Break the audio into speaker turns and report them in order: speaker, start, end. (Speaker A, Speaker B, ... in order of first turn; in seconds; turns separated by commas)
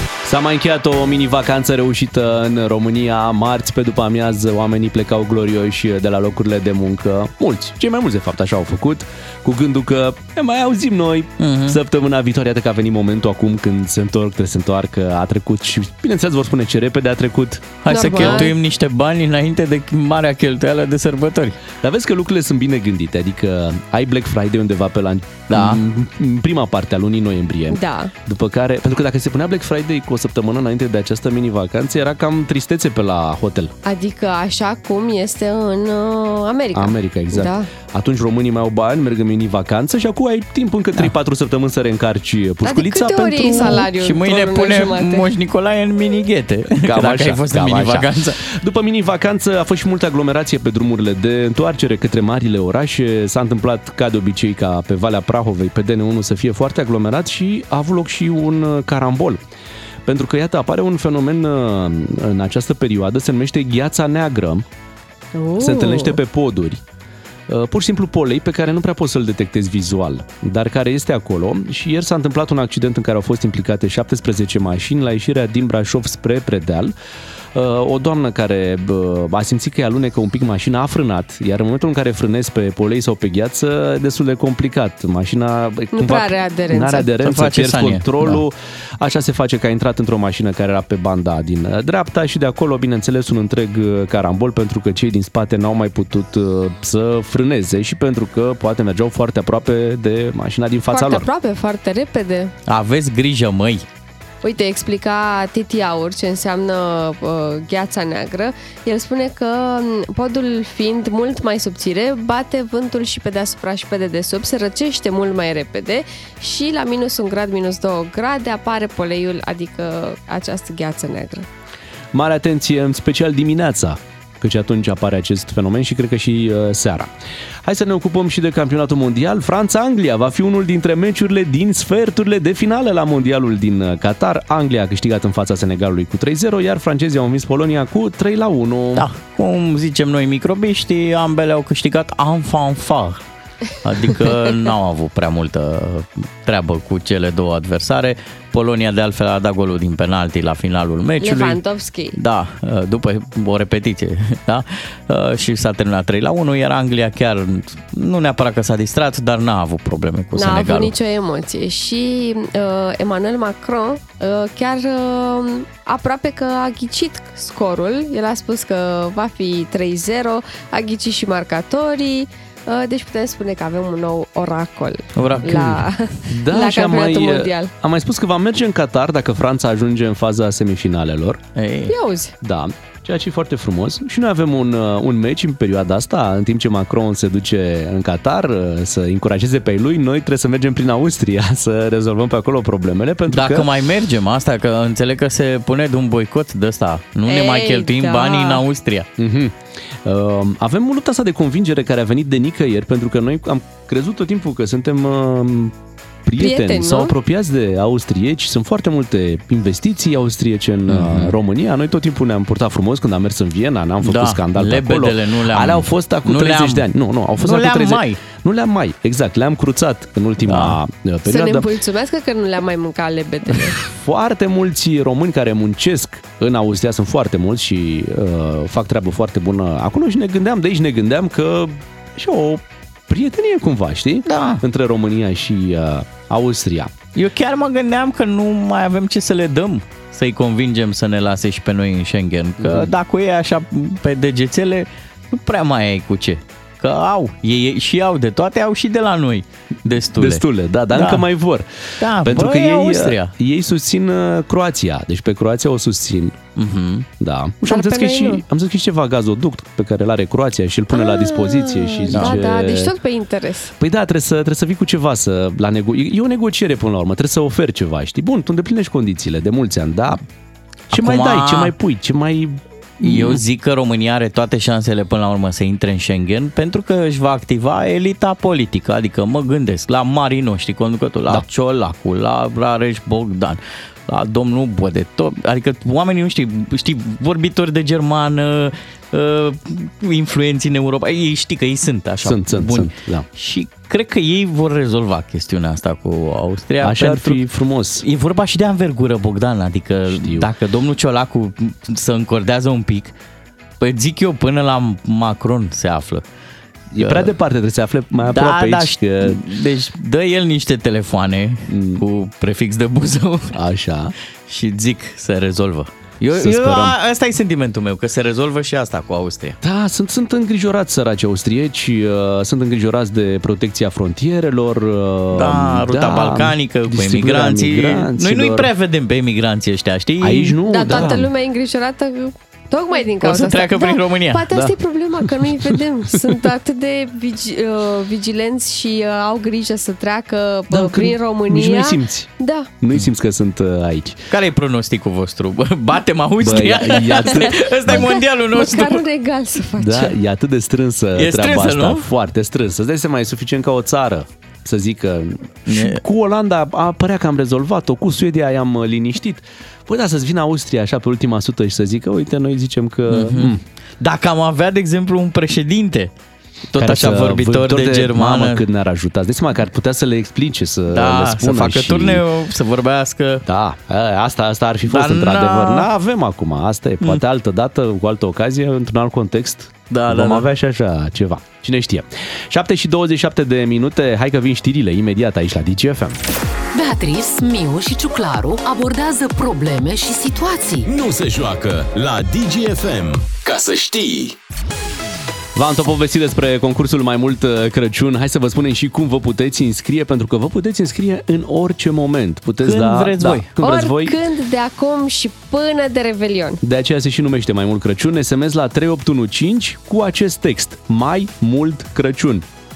Speaker A: 0.2-18.5, Speaker B: 11.4-11.8, Speaker B: 17.8-21.6, Speaker C: 17.9-18.5, Speaker A: 21.8-33.7, Speaker B: 25.5-25.8, Speaker C: 27.7-28.1, Speaker C: 33.9-37.7, Speaker A: 36.7-43.9, Speaker C: 42.6-45.3, Speaker B: 43.6-48.4, Speaker A: 46.7-59.4, Speaker A: 60.0-64.7, Speaker C: 65.4-66.2, Speaker A: 65.6-66.8, Speaker A: 67.5-76.9, Speaker A: 77.5-101.3, Speaker C: 85.9-87.1, Speaker B: 87.2-88.4, Speaker C: 100.9-102.5, Speaker B: 102.7-103.8, Speaker C: 104.4-121.5, Speaker A: 122.1-127.1, Speaker A: 127.6-139.1, Speaker B: 138.9-143.2, Speaker B: 143.8-151.6, Speaker C: 151.2-152.2, Speaker B: 152.2-160.9, Speaker C: 160.4-177.7, Speaker B: 175.2-175.8, Speaker A: 176.3-181.4, Speaker B: 181.6-181.9, Speaker C: 181.9-182.3, Speaker A: 182.4-193.7, Speaker B: 193.3-199.1, Speaker C: 197.3-198.6, Speaker A: 199.2-221.7, Speaker C: 206.4-207.1, Speaker B: 210.9-211.3, Speaker B: 214.0-216.9, Speaker B: 217.4-218.2, Speaker B: 220.4-220.8, Speaker C: 221.3-223.8, Speaker A: 223.8-236.9, Speaker B: 234.3-234.6, Speaker B: 237.2-251.3, Speaker A: 242.6-242.9, Speaker A: 250.1-256.4, Speaker B: 252.0-253.3, Speaker B: 256.6-257.1, Speaker A: 257.2-262.9, Speaker C: 257.7-258.4, Speaker C: 260.9-263.7, Speaker B: 262.1-262.4, Speaker A: 263.8-270.2, Speaker A: 270.9-273.4, Speaker B: 270.9-271.7, Speaker B: 273.0-297.4, Speaker A: 292.2-293.3, Speaker A: 296.8-298.1, Speaker B: 298.0-303.1, Speaker A: 300.1-300.5, Speaker B: 303.8-306.2, Speaker A: 306.9-309.4, Speaker B: 307.0-307.3, Speaker B: 308.3-313.6, Speaker A: 311.7-312.0, Speaker A: 313.5-314.1, Speaker B: 314.5-319.6, Speaker A: 316.3-317.0, Speaker A: 319.6-328.7, Speaker B: 325.3-331.1, Speaker A: 330.2-331.3, Speaker C: 330.7-342.7, Speaker B: 333.2-334.4, Speaker A: 334.5-335.8, Speaker A: 340.7-342.3, Speaker A: 342.8-344.2, Speaker B: 344.3-349.0, Speaker A: 346.4-348.1, Speaker C: 347.9-350.2, Speaker A: 349.8-363.6, Speaker B: 351.2-352.1, Speaker B: 355.7-356.0, Speaker B: 363.1-366.1, Speaker B: 366.7-368.6, Speaker A: 366.8-372.2, Speaker B: 370.9-373.4, Speaker A: 373.4-386.2, Speaker B: 374.9-375.9, Speaker B: 379.9-380.5, Speaker D: 386.7-390.9, Speaker E: 390.9-394.4, Speaker A: 395.6-404.2, Speaker B: 402.6-403.5, Speaker C: 403.6-406.6, Speaker A: 406.6-412.5